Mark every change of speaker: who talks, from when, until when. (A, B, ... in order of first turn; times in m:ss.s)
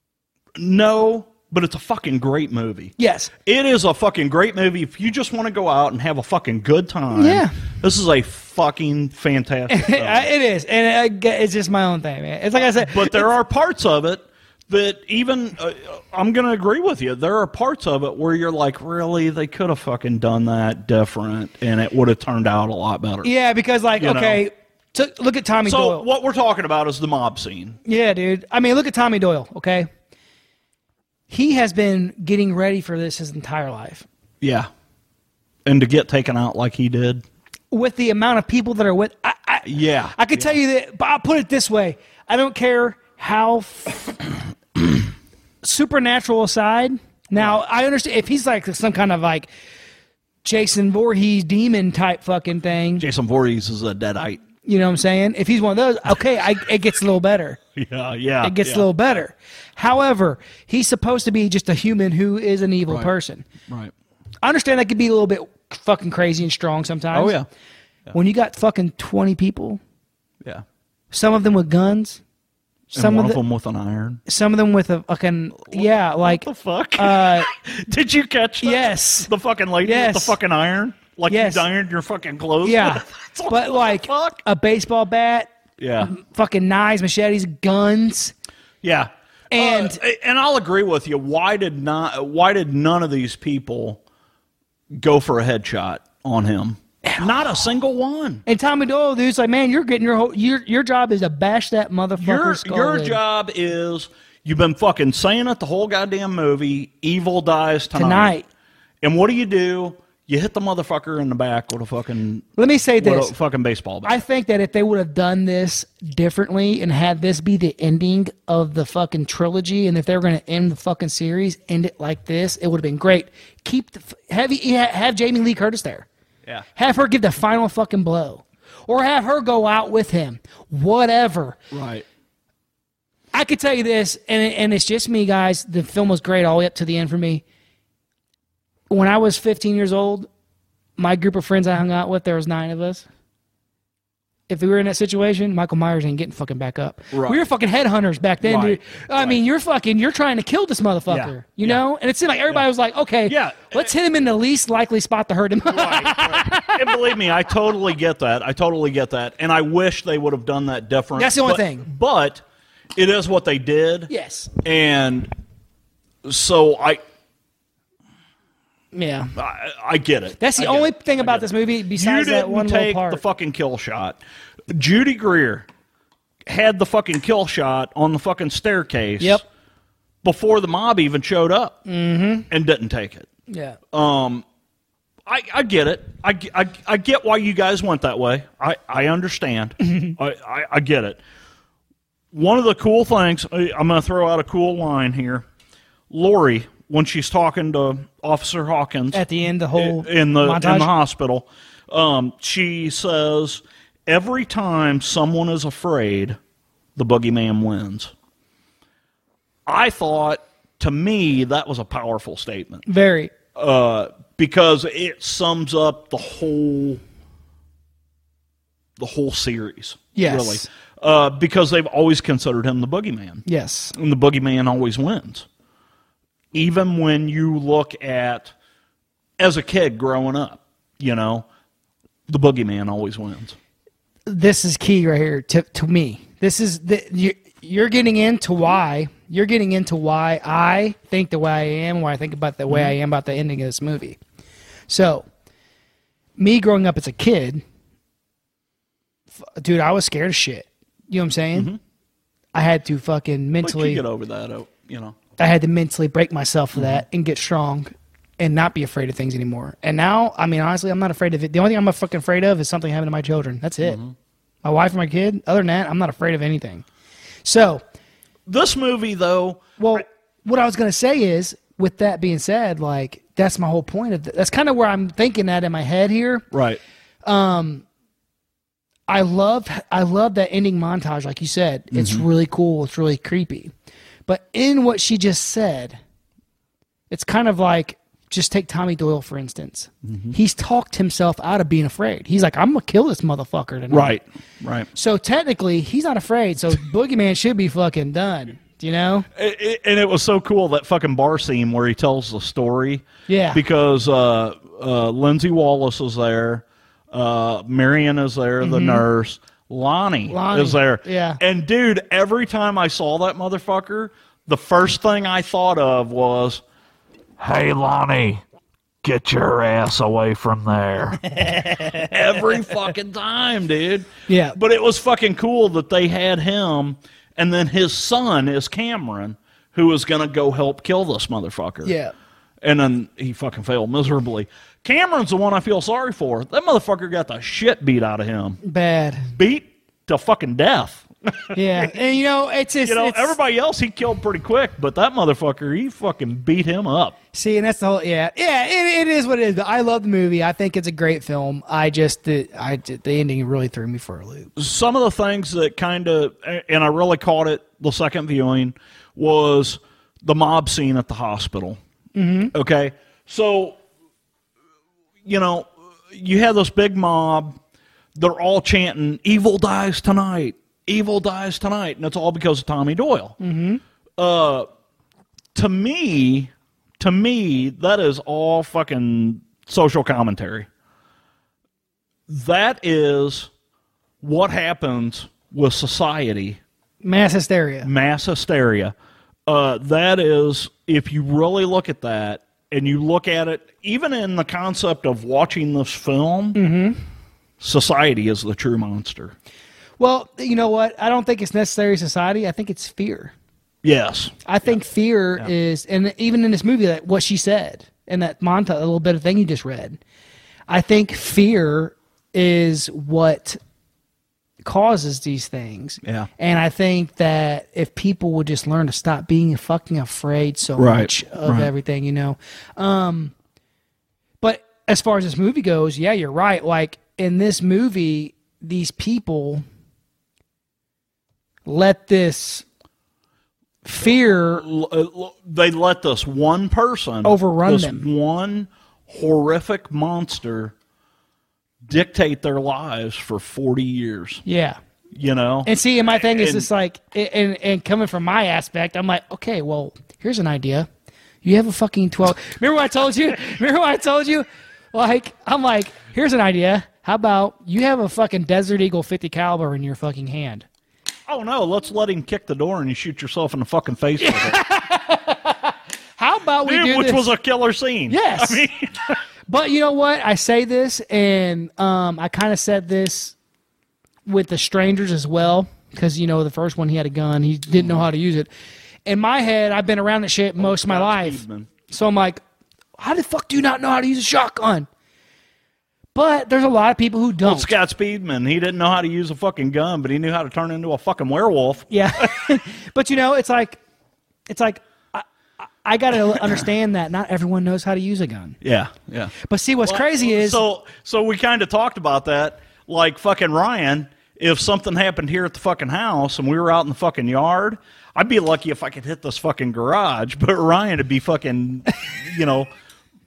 0:00.6-0:02.9 A
0:03.0-0:03.3 B
0:03.4-0:10.3 A
0:07.1-0:07.6 B
0:09.7-0:13.3 B
0:12.7-0:23.3 A
0:23.2-0:26.0 B
0:24.0-0:24.4 A
0:25.6-0:27.8 A
0:27.8-0:29.9 B
0:31.3-0:34.0 B
0:34.4-0:34.7 A
0:35.6-0:37.2 A
0:37.7-0:44.2 B
0:39.6-0:40.5 A
0:45.6-0:49.5 B
0:50.4-0:53.0 B
0:53.0-0:54.4 A
0:54.6-0:57.6 B
0:57.7-0:58.8 A
0:58.4-1:03.5 B
1:03.7-1:03.9 A
1:04.4-1:07.4 B
1:07.1-1:07.4 A
1:08.1-1:09.8 B
1:11.1-1:12.2 B
1:12.9-1:13.4 B
1:12.9-1:14.2 A
1:14.2-1:16.4 B
1:15.6-1:24.4 A
1:17.0-1:17.5 B
1:18.6-1:19.3 B
1:19.8-1:20.4 B
1:21.3-1:21.6 B
1:22.6-1:25.5 B
1:25.8-1:26.1 A
1:26.0-1:28.3 B
1:28.8-1:34.0 A
1:29.5-1:30.0 B
1:34.9-1:38.4 A
1:38.4-1:43.2 B
1:42.2-1:48.3 A
1:47.9-1:48.4 B
1:49.0-1:52.5 A
1:52.6-1:53.3 B
1:53.0-1:54.2 A
1:54.0-2:06.1 B
2:06.8-2:11.6 B
2:11.7-2:12.0 A
2:13.3-2:17.4 B
2:18.9-2:20.3 B
2:21.0-2:23.0 B
2:24.5-2:37.0 B
2:27.1-2:27.4 A
2:28.4-2:29.4 A
2:31.1-2:31.8 A
2:33.3-2:33.9 A
2:35.7-2:42.4 A
2:41.2-2:41.9 B
2:43.0-2:44.1 A
2:44.1-2:44.5 B
2:44.6-2:45.3 A
2:46.2-2:47.0 A
2:48.9-2:49.3 B
2:49.4-2:55.7 A
2:50.4-2:53.2 B
2:56.4-2:59.4 A
3:00.2-3:01.8 A
3:01.8-3:02.5 B
3:02.5-3:03.3 A
3:03.5-3:03.8 B
3:03.9-3:04.4 A
3:05.2-3:11.2 A
3:09.8-3:10.1 B
3:12.3-3:15.4 A
3:16.1-3:19.2 A
3:19.1-3:20.9 B
3:19.7-3:26.4 A
3:27.0-3:28.1 A
3:29.6-3:32.8 A
3:32.8-3:33.3 B
3:33.5-3:37.0 A
3:39.0-3:43.4 A
3:40.1-3:40.7 B
3:43.4-3:43.9 B
3:43.9-3:45.4 A
3:46.5-3:48.5 A
3:49.4-3:51.4 A
3:52.3-3:53.6 A
3:54.3-4:04.2 B
4:04.9-4:05.3 B
4:06.4-4:07.6 B
4:09.5-4:11.7 B
4:11.5-4:11.8 A
4:12.5-4:14.0 B
4:13.6-4:15.2 A
4:15.4-4:24.0 B
4:16.7-4:17.0 A
4:23.8-4:24.1 A
4:24.6-4:26.8 B
4:27.4-4:27.8 B
4:28.5-4:30.0 A
4:29.8-4:36.4 B
4:36.5-4:36.8 A
4:37.2-4:37.8 B
4:39.1-4:43.7 B
4:41.9-4:42.3 A
4:44.3-4:46.0 B
4:47.1-4:54.2 B
4:50.1-4:50.3 A
4:53.9-4:54.9 A
4:54.9-4:59.3 B
4:59.3-5:16.6 A
5:03.3-5:03.6 B
5:08.6-5:09.0 B
5:10.3-5:11.4 B
5:17.4-5:18.4 A
5:19.0-5:21.3 A
5:21.4-5:22.1 B
5:21.9-5:31.9 A
5:24.3-5:24.6 B
5:31.8-5:32.1 B
5:32.6-5:38.6 A
5:38.6-5:39.3 B
5:39.3-5:41.8 A
5:41.5-5:43.4 B
5:42.8-5:47.2 A
5:47.3-5:54.5 B
5:54.6-6:01.8 A
6:02.1-6:02.5 B
6:02.5-6:03.8 A
6:05.2-6:07.6 A
6:08.1-6:13.4 A
6:13.4-6:13.8 B
6:14.2-6:14.7 A
6:15.5-6:20.7 A
6:22.3-6:23.5 A
6:24.2-6:26.6 A
6:27.0-6:27.9 B
6:27.8-6:28.9 A
6:29.5-6:36.6 A
6:36.5-6:37.0 B
6:37.6-6:39.3 A
6:40.0-6:43.3 B
6:43.8-6:44.3 A
6:44.4-6:50.0 B
6:50.7-6:53.6 B
6:54.6-7:03.3 B
6:56.0-6:56.3 A
7:00.8-7:01.7 A
7:04.4-7:09.6 B
7:11.6-7:12.6 B
7:13.8-7:14.6 B
7:14.0-7:20.7 A
7:17.2-7:18.0 B
7:21.8-7:24.4 A
7:24.4-7:24.8 B
7:25.1-7:26.7 A
7:25.6-7:30.9 B
7:31.4-7:40.6 B
7:41.3-7:44.6 A
7:44.2-7:47.3 B
7:46.6-7:49.2 A
7:48.1-7:48.7 B
7:49.5-7:53.4 B
7:54.2-7:58.5 B
7:59.0-8:02.4 B
8:00.6-8:01.7 A
8:03.0-8:04.9 B
8:06.1-8:07.7 B
8:07.4-8:12.4 A
8:11.9-8:13.8 B
8:14.5-8:15.2 B
8:15.8-8:18.6 B
8:18.6-8:19.3 A
8:19.4-8:20.6 B
8:19.8-8:32.7 A